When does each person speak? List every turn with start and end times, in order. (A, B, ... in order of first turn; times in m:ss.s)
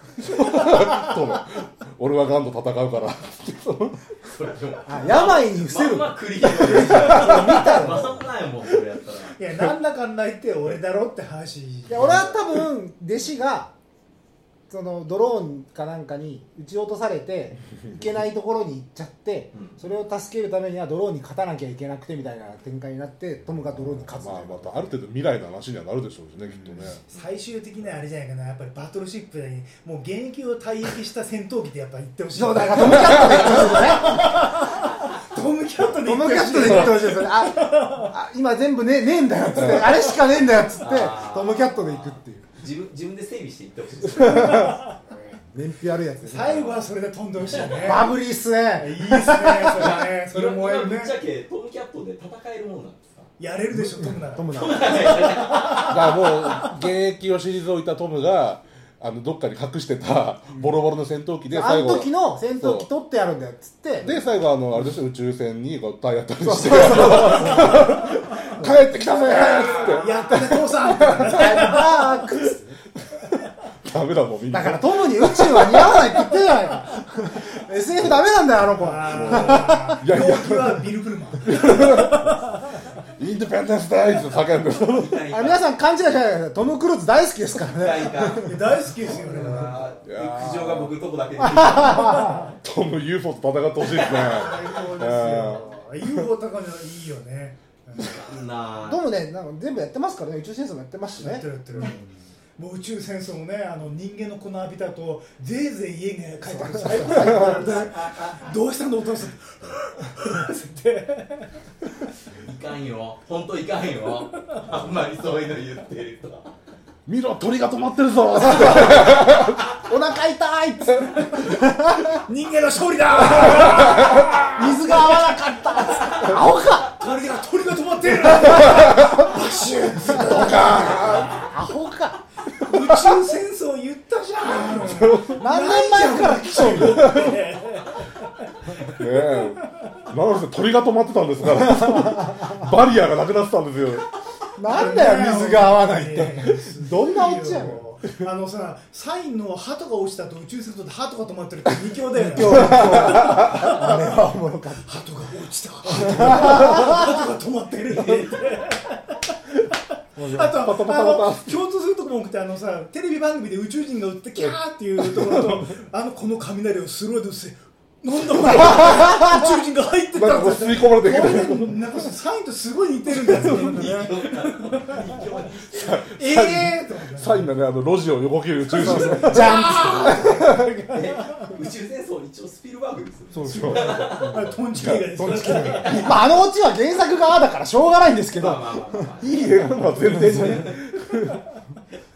0:00.2-0:04.0 A
0:04.3-0:09.4 B
0:04.9-0:08.2 C
0:09.4-0:12.4 D
0:11.9-0:13.7 C
0:14.7-0:24.9 C
0:19.5-0:19.8 B
0:24.0-0:27.0 A
0:26.5-0:27.0 C
0:27.1-0:38.1 D
0:32.3-0:34.5 C
0:32.9-0:33.2 A
0:36.0-0:42.5 C
0:39.6-0:39.9 A
0:40.8-0:44.8 B
0:44.2-0:44.6 A
0:44.4-0:44.8 C
0:44.4-0:44.8 D
0:45.4-0:46.7 C
0:46.2-0:48.1 D
0:47.7-0:50.0 C
0:48.8-0:51.2 D
0:49.7-0:53.3 B
0:53.4-0:56.7 D
0:53.7-0:55.2 C
0:54.5-0:56.3 B
0:55.7-1:02.9 A
1:00.5-1:00.8 C
1:01.5-1:04.2 C
1:04.0-1:11.6 A
1:06.4-1:10.2 C
1:09.2-1:12.3 D
1:11.2-1:12.8 C
1:13.8-1:16.0 A
1:14.5-1:20.0 C
1:18.8-1:22.8 D
1:19.0-1:20.9 A
1:21.4-1:22.4 A
1:23.2-1:25.2 A
1:24.8-1:25.7 B
1:25.3-1:28.6 C
1:27.8-1:28.6 B
1:28.4-1:29.9 D
1:29.1-1:32.5 B
1:30.0-1:30.9 A
1:31.4-1:32.5 C
1:32.6-1:35.7 A
1:34.0-1:38.2 D
1:38.0-1:39.1 B
1:38.8-1:42.1 C
1:41.2-1:42.0 D
1:42.6-1:51.6 D
1:46.4-1:47.9 C
1:47.2-1:48.6 B
1:52.3-1:56.5 B
1:57.1-1:59.6 A
1:58.3-2:02.2 C
2:02.2-2:05.1 D
2:03.2-2:07.0 C
2:06.0-2:11.3 D
2:08.5-2:09.4 C
2:10.0-2:12.2 C
2:10.1-2:11.4 A
2:12.6-2:19.6 D
2:14.5-2:15.4 A
2:15.3-2:17.4 C
2:16.7-2:17.4 A
2:18.7-2:24.2 A
2:21.7-2:22.7 C
2:24.6-2:27.8 C
2:24.7-2:34.2 D
2:32.2-2:34.9 C
2:32.4-2:33.7 A
2:34.8-2:39.3 D
2:35.9-2:37.2 C
2:40.2-2:40.5 C
2:40.2-2:55.3 D
2:40.2-2:41.6 A
2:45.1-2:45.7 A
2:48.4-2:49.6 C
2:48.6-2:49.1 A
2:50.1-2:51.8 A
2:53.2-2:56.1 B
2:55.7-3:00.8 A
2:56.2-2:57.5 D
2:58.7-3:01.5 D
2:58.8-3:00.5 C
2:58.8-3:04.5 B
3:03.3-3:09.1 C
3:03.4-3:05.5 A
3:04.1-3:06.2 D
3:05.4-3:06.4 B
3:08.4-3:10.9 B
3:09.2-3:11.5 A
3:10.0-3:10.7 C